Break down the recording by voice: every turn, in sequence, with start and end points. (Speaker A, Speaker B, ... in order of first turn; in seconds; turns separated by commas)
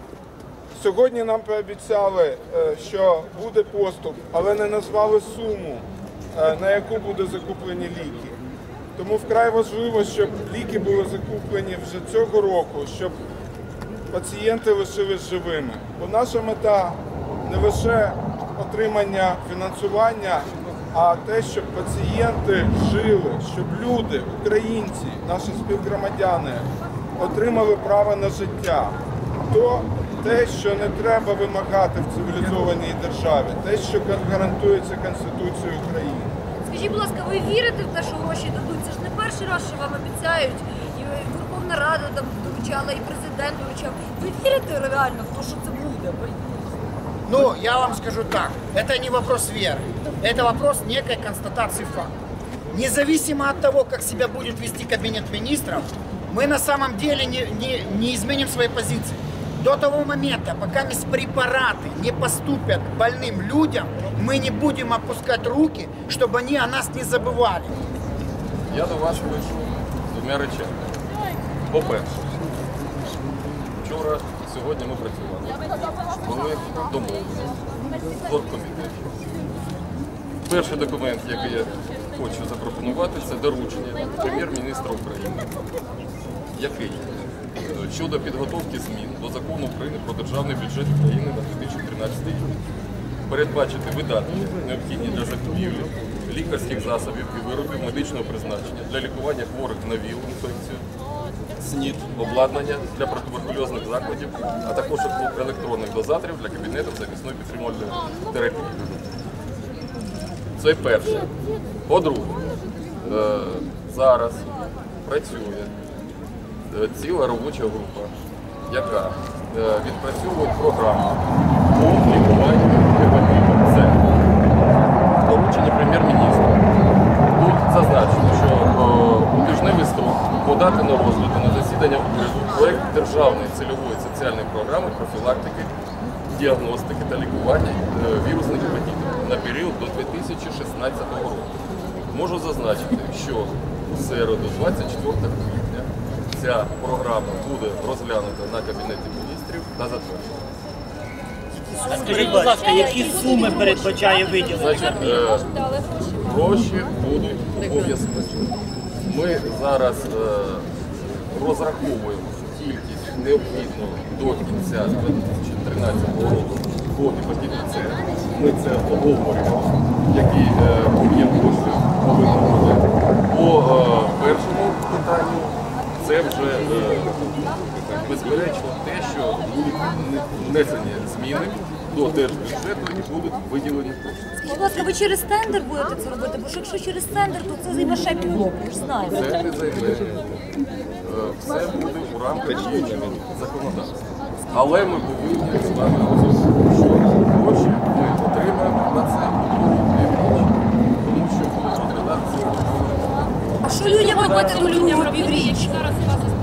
Speaker A: 0.7-8.4, Speaker A: 8.9-13.2, Speaker A: 14.1-29.0, Speaker A: 29.5-36.4, Speaker B: 36.6-46.5, Speaker C: 47.2-52.1, Speaker C: 52.7-67.7, Speaker D: 68.7-70.8, Speaker D: 71.7-72.2, Speaker D: 73.8-75.6, Speaker D: 76.2-79.1, Speaker D: 80.4-85.6, Speaker D: 86.5-92.5, Speaker D: 93.3-100.8, Speaker D: 101.6-109.0, Speaker D: 110.6-111.3, Speaker D: 111.9-112.4, Speaker D: 113.0-114.5, Speaker D: 115.0-115.7, Speaker D: 116.7-118.1, Speaker D: 118.7-124.0, Speaker D: 125.2-126.6, Speaker D: 127.3-135.7, Speaker D: 136.3-141.5, Speaker D: 142.1-150.3, Speaker E: 151.7-155.3, Speaker B: 151.9-154.4, Speaker D: 154.5-158.5, Speaker D: 159.0-177.3, Speaker D: 178.0-184.2, Speaker B: 184.4-189.2, Speaker D: 189.1-190.3, Speaker D: 191.0-194.0, Speaker D: 194.5-203.1, Speaker B: 203.6-205.9